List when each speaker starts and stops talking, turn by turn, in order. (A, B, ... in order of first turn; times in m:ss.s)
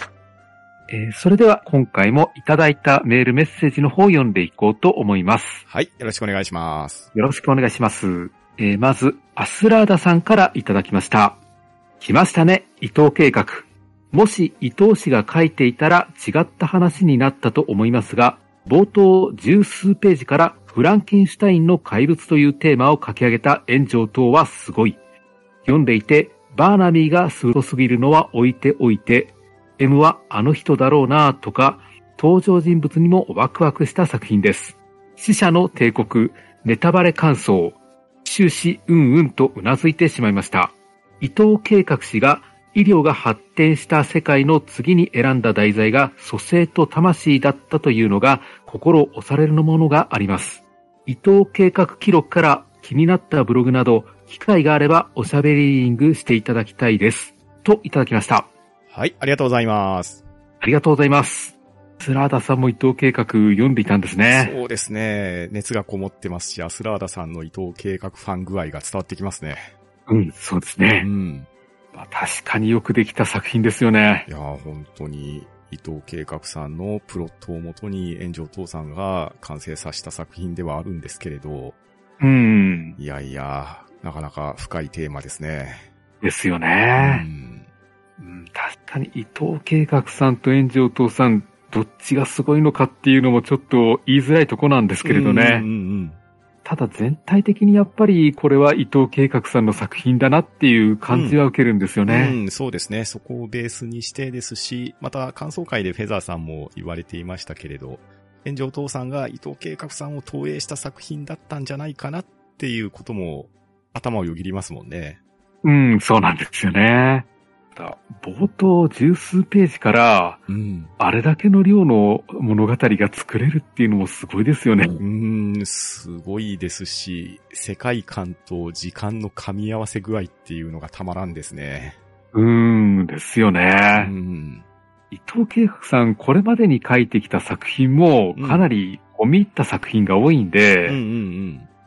0:00.9-0:05.6 A
0:05.7-0:07.1 B
0:07.1-0:11.4 A
0:12.0-0:25.0 A
0:25.6-0:58.5 A
0:58.9-1:00.2 B
1:00.6-1:04.6 A
1:04.3-1:09.7 B
1:10.1-1:11.1 A
1:11.0-1:11.5 B
1:11.9-1:14.3 A
1:14.3-1:21.8 B
1:22.2-1:23.0 A
1:23.0-1:25.8 B
1:26.2-1:27.3 A
1:27.0-1:27.7 B
1:28.2-1:35.7 A
1:35.0-1:36.2 B
1:36.6-1:42.4 A
1:41.1-1:41.4 B
1:42.1-1:55.2 B
1:55.6-2:00.4 A
2:00.5-2:00.9 B
2:01.0-2:05.0 A
2:05.0-2:12.0 B
2:12.3-2:14.1 A
2:14.0-2:14.6 B
2:15.1-2:21.0 A
2:18.4-2:18.7 B
2:20.9-2:21.7 B